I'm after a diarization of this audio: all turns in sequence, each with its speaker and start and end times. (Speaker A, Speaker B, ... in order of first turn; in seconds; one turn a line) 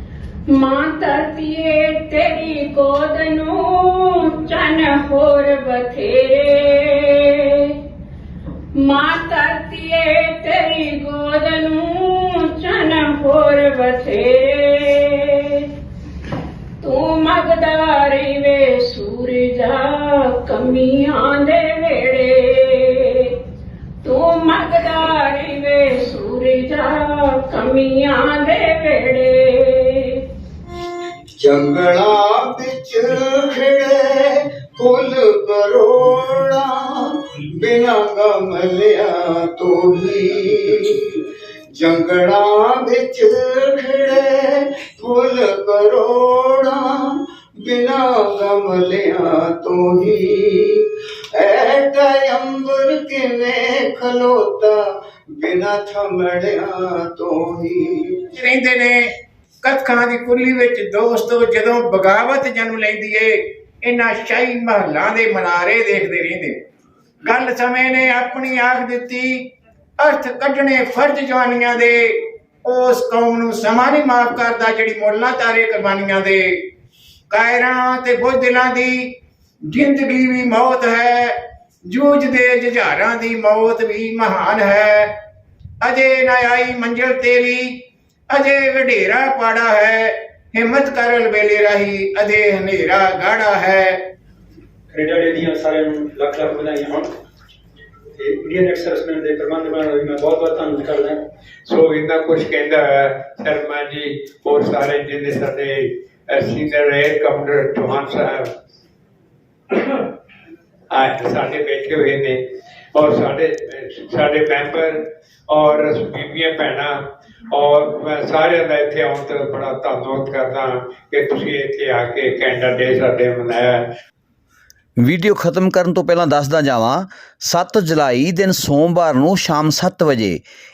Speaker A: 0.5-7.8
Speaker A: 8.8-15.7
Speaker A: 16.8-23.4
Speaker A: 24.0-30.2
Speaker B: 31.4-41.2
Speaker B: 41.7-58.2
Speaker C: 58.4-59.0
Speaker C: 59.6-66.5
Speaker C: 67.2-69.4
Speaker C: 70.0-76.5
Speaker C: 77.3-79.1
Speaker C: 79.7-81.3
Speaker C: 81.9-85.1
Speaker C: 85.8-87.7
Speaker C: 88.3-94.0
Speaker D: 94.9-97.1
Speaker D: 98.2-101.2
Speaker E: 101.7-108.5
Speaker E: 110.9-112.4
Speaker E: 112.9-117.0
Speaker E: 117.5-123.8
Speaker F: 125.0-130.4